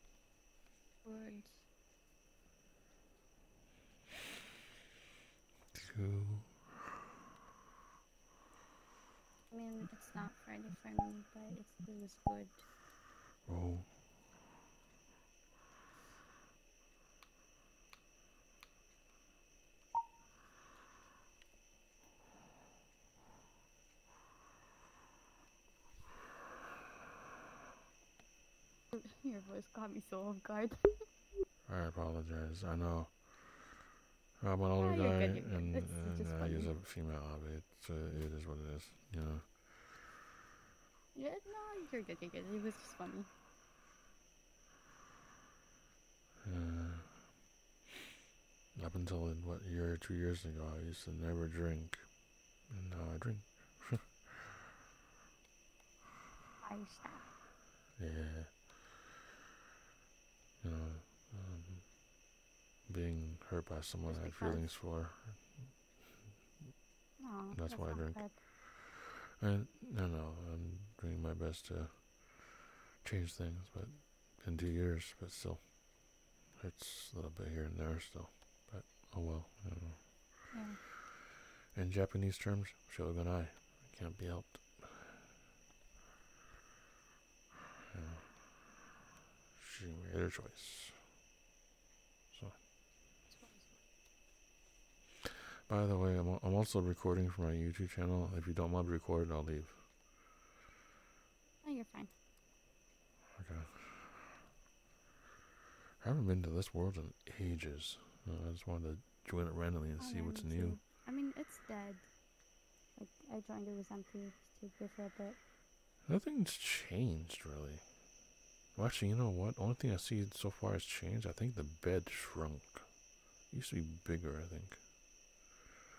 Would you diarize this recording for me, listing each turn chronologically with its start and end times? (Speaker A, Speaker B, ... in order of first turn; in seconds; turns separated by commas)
Speaker A: 1.0-1.6, Speaker B: 5.7-6.7, Speaker A: 9.5-12.6, Speaker B: 13.4-14.0, Speaker A: 28.9-31.0, Speaker B: 31.6-33.7, Speaker B: 34.4-39.5, Speaker A: 34.8-36.7, Speaker A: 41.1-43.3, Speaker B: 46.4-47.2, Speaker B: 48.8-52.1, Speaker B: 52.6-54.6, Speaker A: 56.6-57.2, Speaker B: 58.0-58.7, Speaker B: 60.6-62.0, Speaker B: 62.9-65.8, Speaker A: 64.1-64.8, Speaker A: 67.2-68.3, Speaker B: 67.5-80.5, Speaker A: 80.5-80.8, Speaker B: 81.7-85.2, Speaker B: 87.9-88.7, Speaker B: 89.5-91.0, Speaker A: 93.3-93.8, Speaker B: 95.7-99.8, Speaker A: 101.6-102.1, Speaker B: 103.3-104.3, Speaker B: 106.0-110.8, Speaker A: 110.0-112.1, Speaker A: 113.0-115.4, Speaker B: 116.0-118.0, Speaker B: 118.7-124.8